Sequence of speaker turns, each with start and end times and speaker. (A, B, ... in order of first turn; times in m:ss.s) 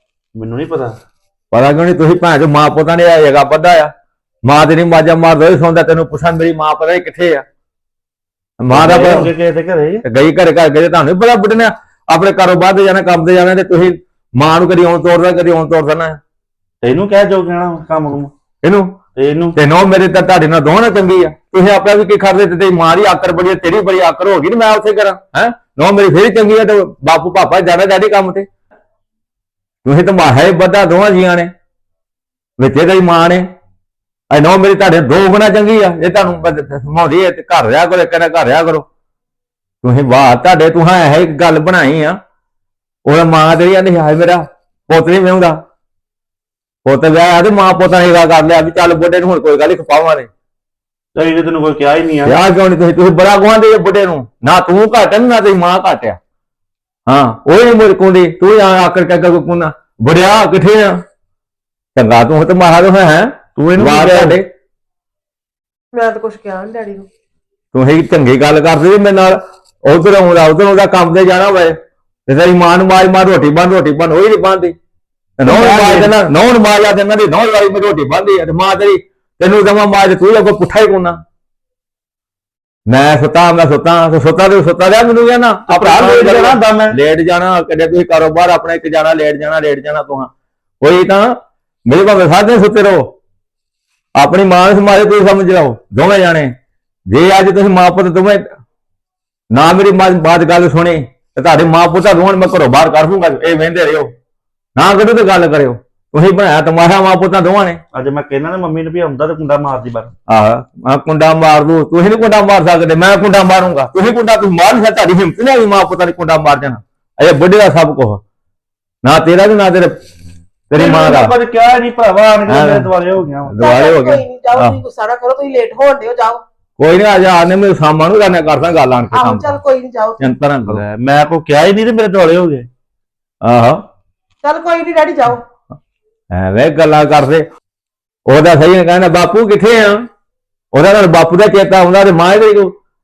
0:00.4-0:01.0 A
0:01.5-0:03.9 B
0:04.5-0:07.4 B
0:08.6-0:09.3 B
0:08.7-0:10.0 A
0:10.0-0:16.2 B
0:16.8-0:18.3 A
0:18.6-0:19.0 B
0:19.2-0:19.6 A
0:19.6-0:28.5 B
0:29.8-0:31.5 B
0:32.6-0:33.4 B
0:34.3-0:38.9 B
0:39.8-0:42.2 B
0:43.0-0:45.6 B
0:46.8-0:50.3 B
0:51.2-0:52.4 A
0:52.2-0:56.2 B
0:57.1-1:01.0 B
1:02.0-1:04.5 B
1:03.6-1:04.4 A
1:05.9-1:07.1 C
1:07.7-1:11.8 B
1:12.3-1:14.8 B
1:15.4-1:21.2 B
1:15.4-1:16.1 A
1:22.9-1:33.1 B
1:25.7-1:27.0 A
1:34.2-1:36.5 B
1:37.1-1:38.4 B
1:39.5-1:44.1 B
1:44.8-1:47.8 B
1:47.9-1:50.1 A
1:50.3-1:58.2 B
1:59.0-1:59.9 B
2:00.7-2:01.3 B
2:00.8-2:03.6 A
2:02.5-2:02.9 B
2:03.5-2:04.8 B
2:03.6-2:06.4 C
2:06.8-2:09.6 B
2:09.1-2:10.3 C
2:10.2-2:10.8 B
2:10.7-2:12.7 A
2:13.4-2:13.8 B
2:14.4-2:15.4 C
2:16.3-2:17.4 B
2:18.3-2:20.0 B
2:20.7-2:22.7 B